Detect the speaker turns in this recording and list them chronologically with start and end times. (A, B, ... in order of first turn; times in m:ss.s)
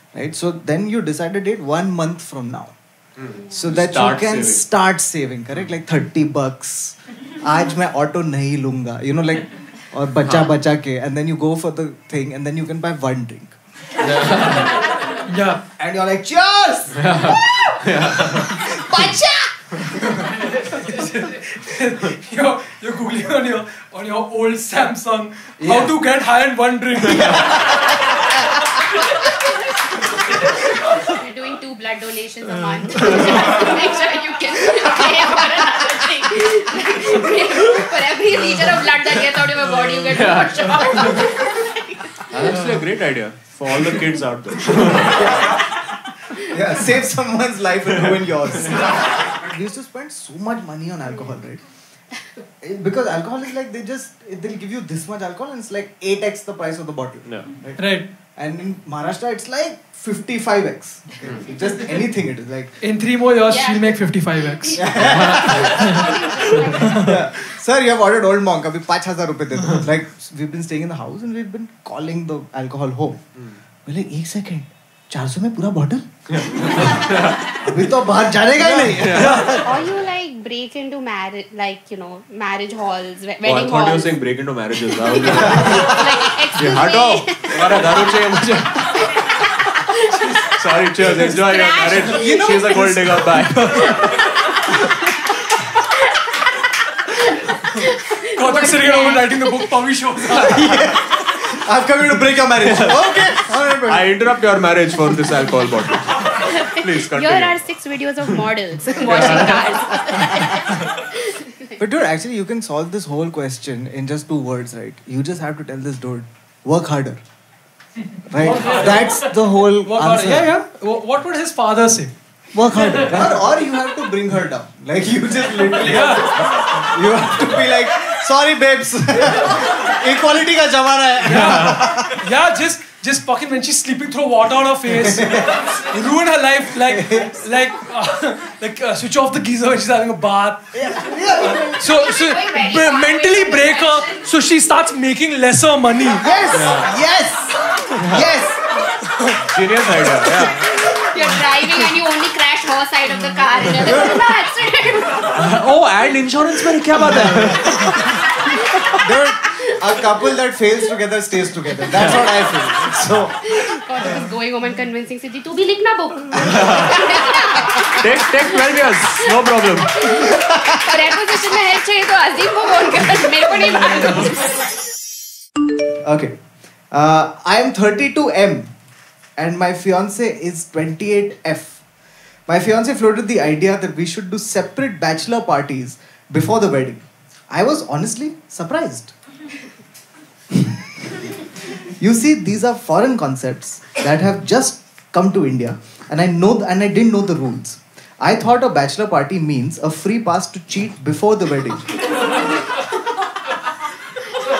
0:00.1-0:02.8 A
0:03.2-0:04.6 B
0:03.5-0:13.6 A
0:10.2-0:10.5 B
0:14.0-0:14.8 B
0:15.2-0:15.6 C
0:15.8-0:17.2 A
0:16.9-0:18.6 B
0:17.3-0:17.7 D
0:18.2-0:19.1 A
0:18.6-0:19.8 D
0:20.4-0:27.9 C
0:25.6-0:25.9 A
0:27.1-0:27.9 A
0:27.1-0:27.5 B
0:28.9-0:42.5 D
0:40.1-0:41.2 B
0:42.3-0:45.4 B
0:44.9-0:45.6 A
0:46.3-0:51.6 A
0:48.0-0:48.9 B
0:52.6-0:57.8 A
0:57.8-0:58.1 C
0:58.4-1:02.8 A
1:02.8-1:04.8 C
1:03.5-1:07.2 D
1:04.8-1:13.2 A
1:05.0-1:05.8 B
1:05.8-1:06.1 C
1:06.8-1:07.2 C
1:13.9-1:19.8 A
1:16.3-1:17.6 B
1:18.6-1:19.9 B
1:19.1-1:19.5 C
1:19.6-1:24.1 D
1:23.4-1:29.1 B
1:24.8-1:28.2 D
1:25.3-1:26.2 A
1:28.8-1:30.5 D
1:30.5-1:34.1 B
1:31.3-1:32.9 D
1:32.1-1:33.8 A
1:33.5-1:34.0 C
1:33.8-1:34.4 D
1:37.1-1:39.7 D
1:38.3-1:40.9 C
1:40.3-1:44.1 A
1:42.6-1:47.6 B
1:46.3-1:51.8 D
1:48.9-1:49.8 B
1:49.0-1:50.4 A
1:51.8-1:57.2 A
1:58.3-2:00.5 A
1:58.3-2:02.1 C
2:02.5-2:12.2 A
2:05.8-2:06.5 C
2:11.2-2:26.3 C
2:11.3-2:11.8 B
2:14.9-2:15.6 A
2:16.8-2:17.4 A
2:20.7-2:21.9 A
2:21.8-2:24.4 D
2:26.1-2:28.7 A
2:26.5-2:26.9 B
2:28.0-2:28.3 B
2:29.4-2:30.7 B
2:30.4-2:35.6 D
2:33.8-2:34.4 A
2:35.3-2:38.2 B
2:37.0-2:37.8 A
2:38.1-2:40.3 D
2:38.9-2:43.6 A
2:41.9-2:42.3 B
2:43.4-2:49.3 D
2:46.4-2:47.2 B
2:47.8-2:50.3 B
2:49.9-2:54.6 D
2:50.1-2:51.1 A
2:56.0-2:56.4 A
2:56.9-2:58.7 A
2:59.4-3:01.8 A
3:02.5-3:09.1 A
3:10.5-3:22.0 A